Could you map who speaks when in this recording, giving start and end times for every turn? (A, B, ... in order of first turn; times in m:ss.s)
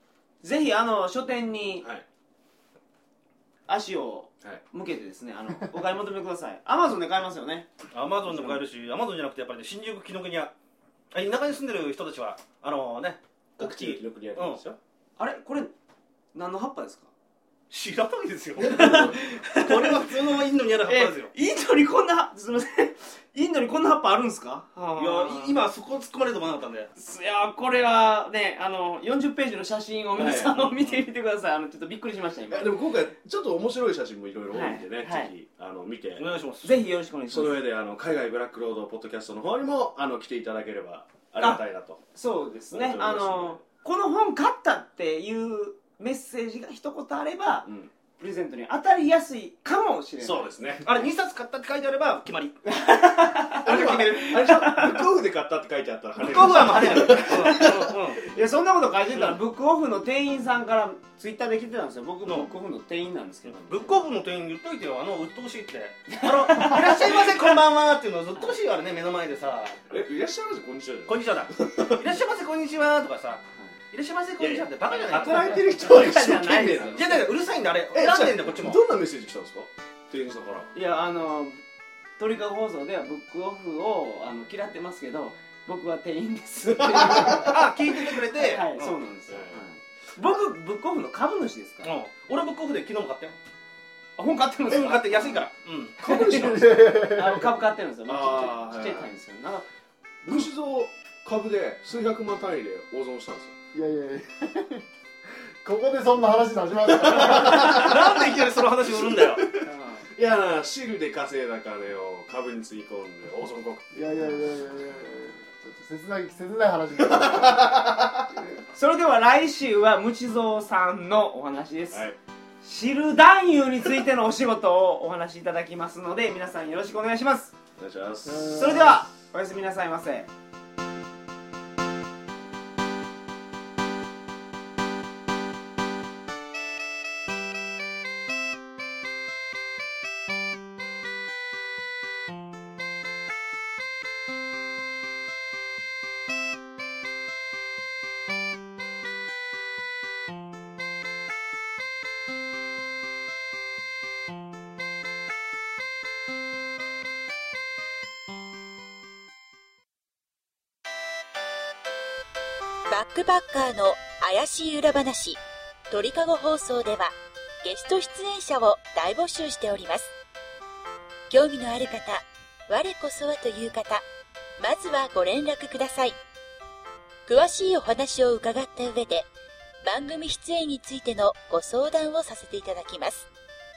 0:00.4-0:01.9 A
0:01.8-0:02.0 B
0:03.7-0:07.7 A
0:07.9-0:10.5 C
0:08.2-0:08.6 A
0:11.1-0:14.6 C
0:13.6-0:14.8 B
0:15.2-0:15.7 A
0:16.3-0:17.1 A
0:17.7-0:21.3 C
0:18.6-0:20.2 A
0:18.6-0:19.2 B
0:20.8-0:25.5 A
0:25.0-0:26.9 C
0:27.0-0:32.8 A
0:30.2-0:30.5 B
0:30.2-0:31.0 C
0:32.5-0:36.2 B
0:34.5-0:35.3 A
0:36.1-0:36.8 C
0:36.6-0:37.6 A
0:37.3-0:42.0 B
0:42.1-0:50.5 A
0:42.7-0:43.6 B
0:47.6-0:47.9 B
0:50.2-0:51.0 B
0:50.8-0:52.6 C
0:52.6-0:55.0 A
0:53.6-0:57.9 B
0:53.6-0:54.3 C
0:56.2-0:58.2 C
0:56.3-1:04.0 A
0:59.1-0:59.4 C
1:02.2-1:02.5 C
1:03.7-1:09.8 C
1:06.1-1:07.6 A
1:09.9-1:12.0 B
1:11.1-1:15.6 C
1:14.4-1:17.3 B
1:14.8-1:17.2 A
1:16.9-1:18.8 C
1:17.9-1:20.7 B
1:20.7-1:21.6 A
1:22.2-1:27.6 A
1:26.8-1:27.5 B
1:27.3-1:28.9 C
1:28.3-1:31.9 A
1:29.3-1:29.6 B
1:31.8-1:33.4 C
1:34.2-1:35.4 A
1:34.7-1:36.0 C
1:36.0-1:36.8 B
1:36.0-1:39.6 A
1:36.3-1:37.5 D
1:38.0-1:39.1 B
1:40.2-1:43.5 B
1:43.7-1:44.8 D
1:45.6-1:47.9 D
1:47.1-1:49.4 C
1:47.1-1:48.1 B
1:48.8-1:53.9 B
1:49.6-1:50.0 A
1:53.9-1:57.9 D
1:54.2-1:54.4 A
1:57.0-1:58.3 B
1:58.4-2:02.0 A
2:01.9-2:02.2 B
2:02.6-2:07.5 A
2:07.8-2:08.9 B
2:08.3-2:08.9 D
2:08.4-2:10.3 A
2:42.9-2:50.1 E
2:51.3-2:54.0 E
2:54.6-2:56.2 E
2:57.2-2:59.3 E
2:59.8-3:03.3 E